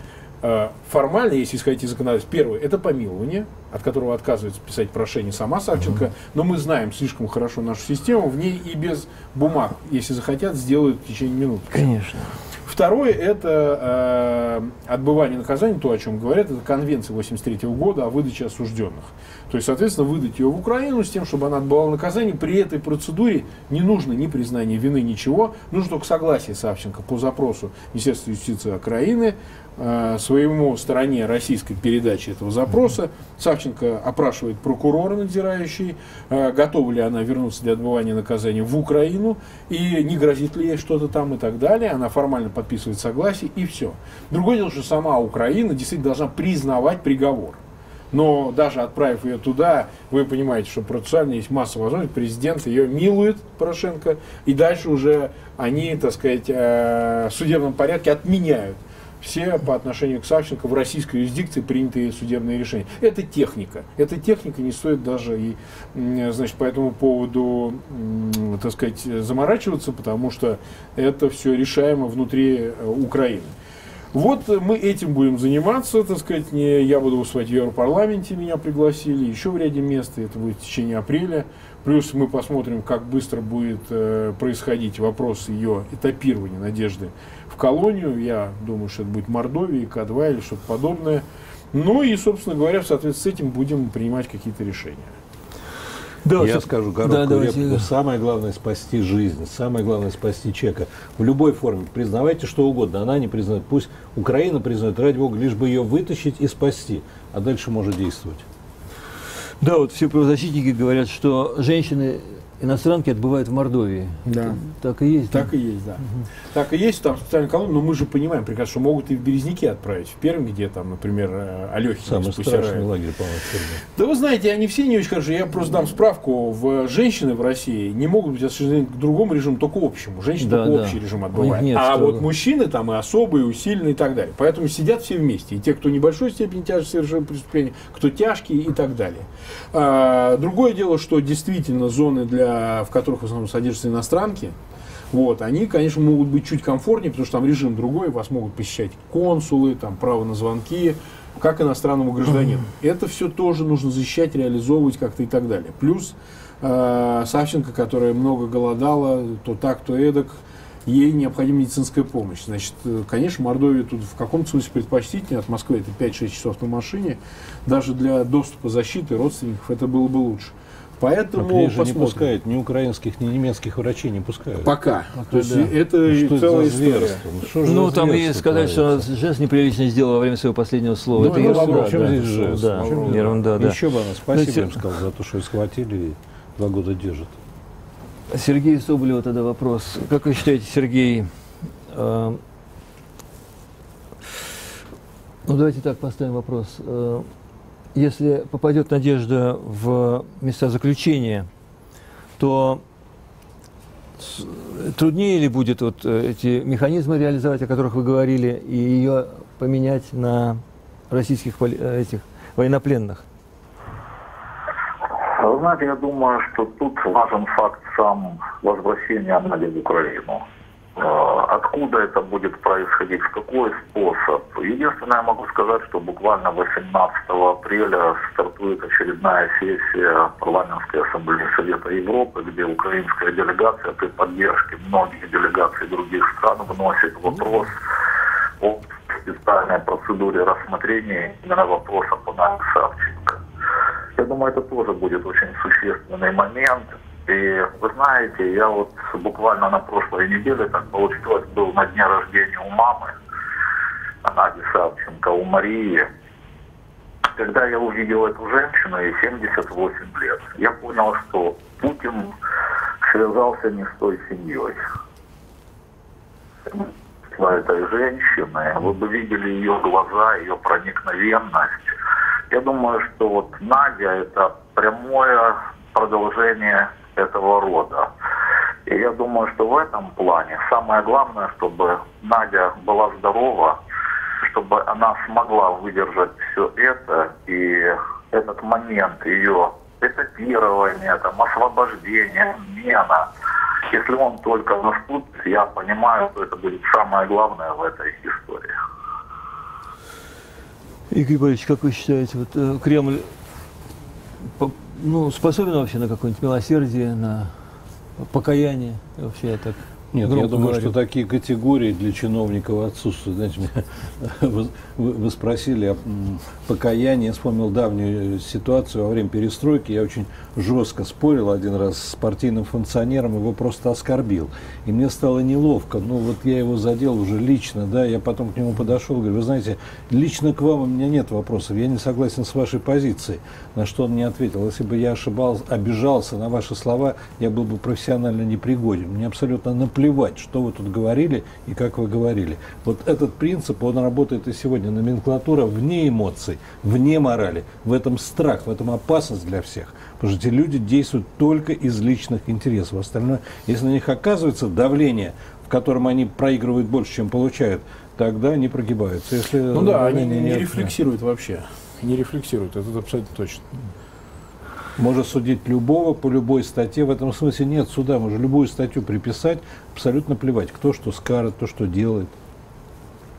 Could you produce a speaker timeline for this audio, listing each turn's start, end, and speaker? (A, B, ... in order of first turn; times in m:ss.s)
0:00.4-0:11.9 A
0:11.7-0:12.4 B
0:12.6-0:47.6 A
0:48.1-1:13.5 A
1:14.1-1:35.1 A
1:36.2-1:37.9 B
1:36.4-1:48.4 C
1:49.6-1:55.5 B
1:54.2-1:54.6 A
1:55.3-2:02.8 A
2:02.0-2:03.8 C
2:03.9-2:24.6 A
2:10.4-2:12.3 B
2:25.1-2:52.3 A
2:51.4-2:54.7 C
2:54.6-2:57.2 A
2:55.2-2:55.7 B
2:56.1-2:59.1 C
2:57.6-3:04.9 B
3:01.1-3:03.4 A
3:01.2-3:07.3 C
3:08.3-3:11.3 B
3:11.9-3:12.4 B
3:15.4-3:17.3 B
3:17.9-3:21.5 B
3:22.4-3:22.8 B
3:24.2-3:33.2 B
3:35.2-3:40.4 D
3:41.0-3:57.7 D
3:58.6-4:03.4 D
4:04.2-4:13.1 D
4:14.2-4:16.1 D
4:17.3-4:22.3 D
4:23.0-4:24.8 D
4:26.7-4:31.9 D
4:32.5-4:38.1 D
4:38.9-4:43.8 D
4:44.4-4:53.3 D
4:53.9-4:58.7 D
5:01.1-5:03.3 B
5:04.6-5:07.5 B
5:08.2-5:10.9 B
5:10.1-6:00.9 C
5:59.7-6:03.7 A
6:05.0-6:12.3 C